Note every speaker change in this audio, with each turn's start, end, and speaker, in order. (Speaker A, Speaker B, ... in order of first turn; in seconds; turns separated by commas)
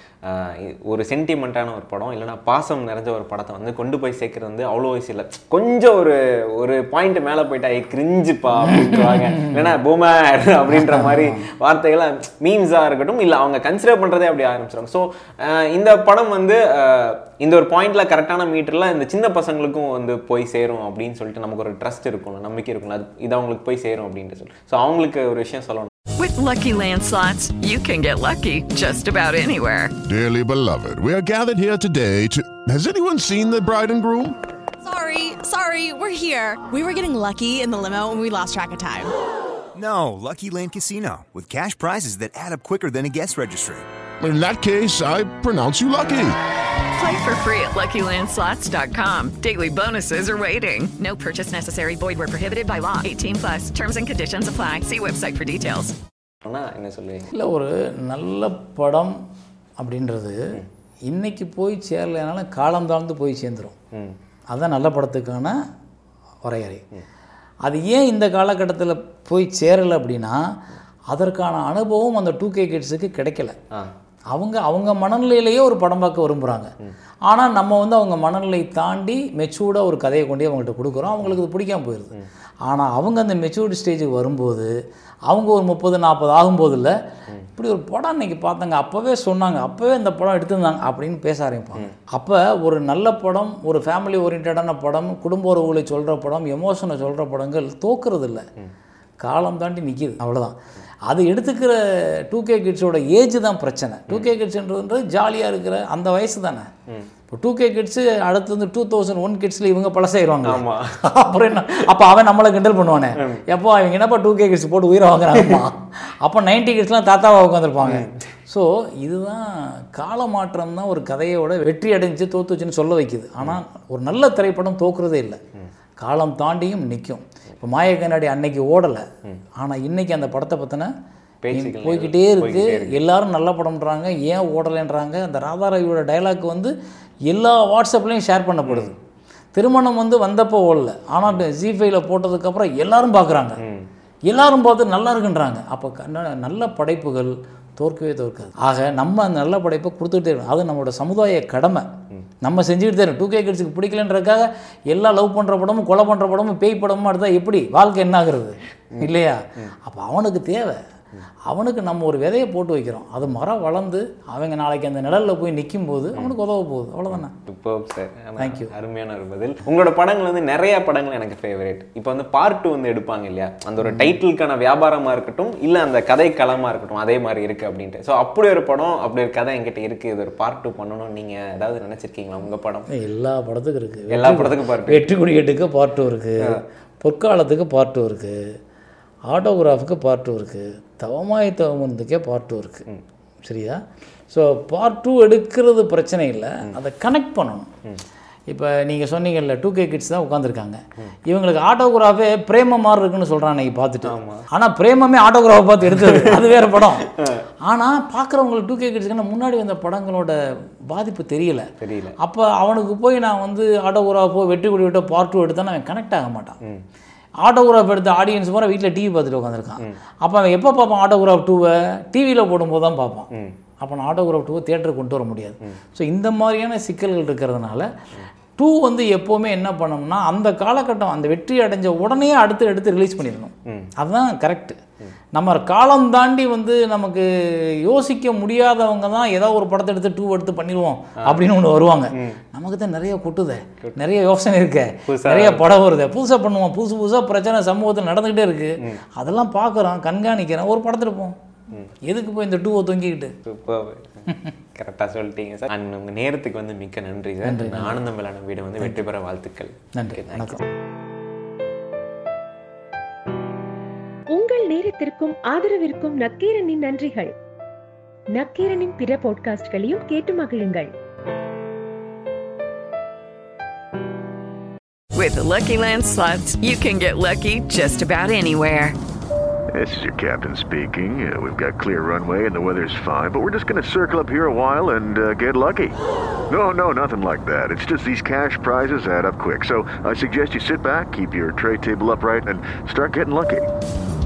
Speaker A: 0.3-25.9, Speaker B: 8.6-9.7, Speaker B: 10.7-11.4, Speaker C: 26.2-29.9, Speaker D: 30.1-34.4, Speaker E: 34.9-39.1, Speaker F: 39.7-43.8, Speaker D: 44.2-46.3, Speaker C: 47.0-56.0, Speaker A: 56.4-57.3, Speaker B: 57.3-59.1, Speaker B: 59.8-60.4, Speaker B: 61.1-63.7, Speaker B: 64.5-65.5, Speaker B: 66.4-66.8, Speaker B: 67.6-70.4, Speaker B: 71.1-73.5, Speaker B: 74.3-76.7, Speaker B: 77.3-82.1, Speaker B: 82.7-84.7, Speaker B: 85.3-86.9, Speaker B: 87.5-98.4, Speaker B: 99.2-100.5, Speaker B: 101.1-106.7, Speaker B: 107.3-125.4, Speaker A: 110.4-111.0, Speaker A: 115.4-115.6, Speaker A: 117.8-118.2, Speaker B: 126.0-129.0, Speaker B: 129.6-130.9, Speaker A: 131.4-133.0, Speaker B: 131.5-136.7, Speaker B: 137.3-138.9, Speaker A: 138.7-138.9, Speaker B: 139.5-143.6, Speaker B: 144.3-151.9, Speaker B: 152.4-160.8, Speaker B: 161.5-167.3, Speaker A: 167.1-182.9, Speaker B: 168.4-168.7, Speaker B: 173.8-174.1, Speaker B: 182.9-188.4, Speaker A: 184.1-185.1, Speaker B: 189.3-192.8, Speaker B: 193.4-197.7, Speaker B: 198.5-207.1, Speaker A: 204.0-204.4, Speaker A: 205.9-207.4, Speaker B: 207.7-210.4, Speaker B: 210.9-211.7, Speaker A: 211.8-212.2, Speaker B: 212.2-216.6, Speaker B: 217.4-223.3, Speaker B: 223.8-227.9, Speaker B: 228.6-234.8, Speaker A: 233.7-233.9, Speaker B: 235.3-251.3, Speaker A: 245.1-245.7, Speaker B: 252.1-253.3, Speaker A: 253.4-260.6, Speaker B: 257.4-258.0, Speaker B: 260.0-260.6, Speaker G: 264.3-267.3, Speaker G: 268.3-270.9, Speaker C: 275.1-278.9, Speaker H: 279.7-285.9, Speaker H: 286.5-293.7